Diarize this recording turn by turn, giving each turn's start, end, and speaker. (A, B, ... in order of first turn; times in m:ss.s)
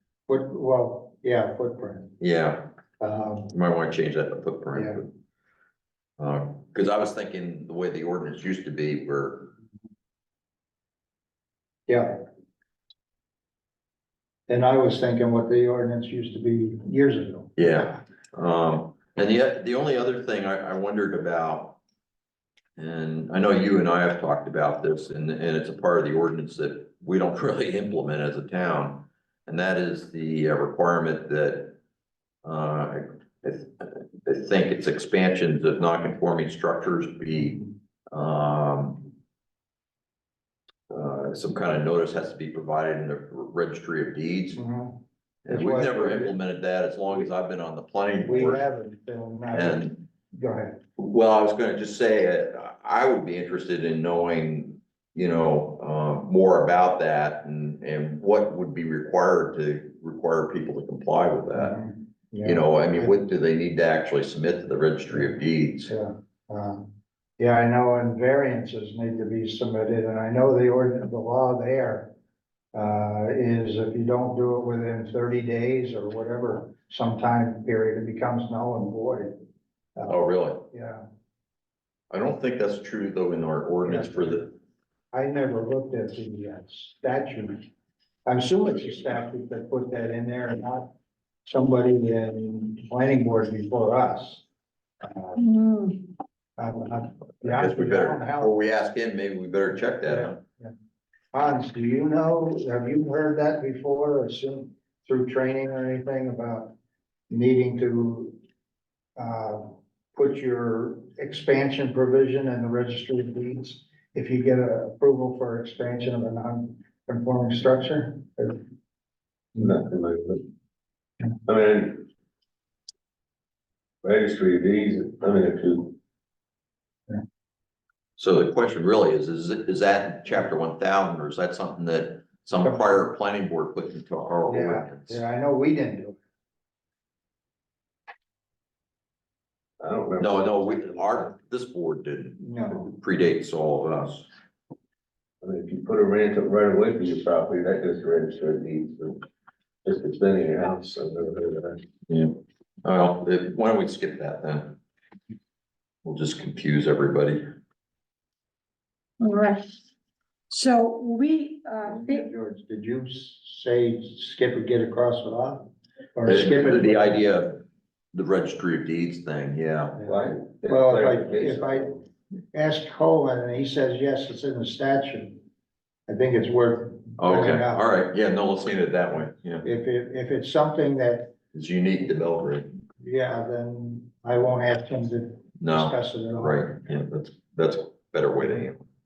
0:00.3-0:02.1 A
0:02.2-0:02.7 B
0:03.0-0:03.5 A
0:03.5-0:05.1 B
0:04.7-0:05.0 A
0:06.2-0:09.5 B
0:11.9-0:12.2 A
0:14.5-0:18.0 A
0:17.6-0:21.8 B
0:22.8-0:31.8 B
0:32.4-0:39.1 B
0:40.9-0:44.6 B
0:44.5-0:46.4 A
0:45.4-0:48.6 B
0:48.2-0:50.8 A
0:49.5-0:50.0 B
0:51.0-1:01.8 B
1:01.5-1:03.1 A
1:02.4-1:05.9 B
1:05.9-1:06.9 A
1:07.4-1:12.1 A
1:12.7-1:19.4 A
1:20.0-1:20.7 B
1:20.7-1:21.0 A
1:22.1-1:24.5 B
1:23.8-1:24.5 A
1:25.1-1:27.6 A
1:28.2-1:30.9 A
1:31.4-1:34.4 A
1:35.0-1:35.4 A
1:35.4-1:36.1 C
1:36.6-1:38.5 A
1:37.4-1:40.4 B
1:40.0-1:40.7 A
1:41.3-1:46.7 A
1:47.3-1:48.4 A
1:49.2-1:58.6 A
1:59.6-2:00.4 D
2:01.4-2:02.0 D
2:04.0-2:05.9 D
2:08.2-2:15.2 B
2:14.5-2:16.2 A
2:19.8-2:20.4 D
2:20.2-2:24.3 B
2:22.4-2:22.9 A
2:25.4-2:29.2 D
2:29.8-2:31.8 D
2:32.1-2:34.8 B
2:36.0-2:37.4 B
2:39.2-2:39.8 C
2:40.5-2:42.3 C
2:41.8-2:47.2 A
2:46.2-2:47.6 B
2:48.1-2:50.0 B
2:49.9-2:51.9 A
2:50.0-2:52.0 D
2:52.5-2:55.4 A
2:56.1-2:57.8 A
2:57.2-2:59.6 B
2:59.6-3:01.3 A
3:01.5-3:02.7 B
3:03.0-3:06.8 A
3:05.6-3:08.8 B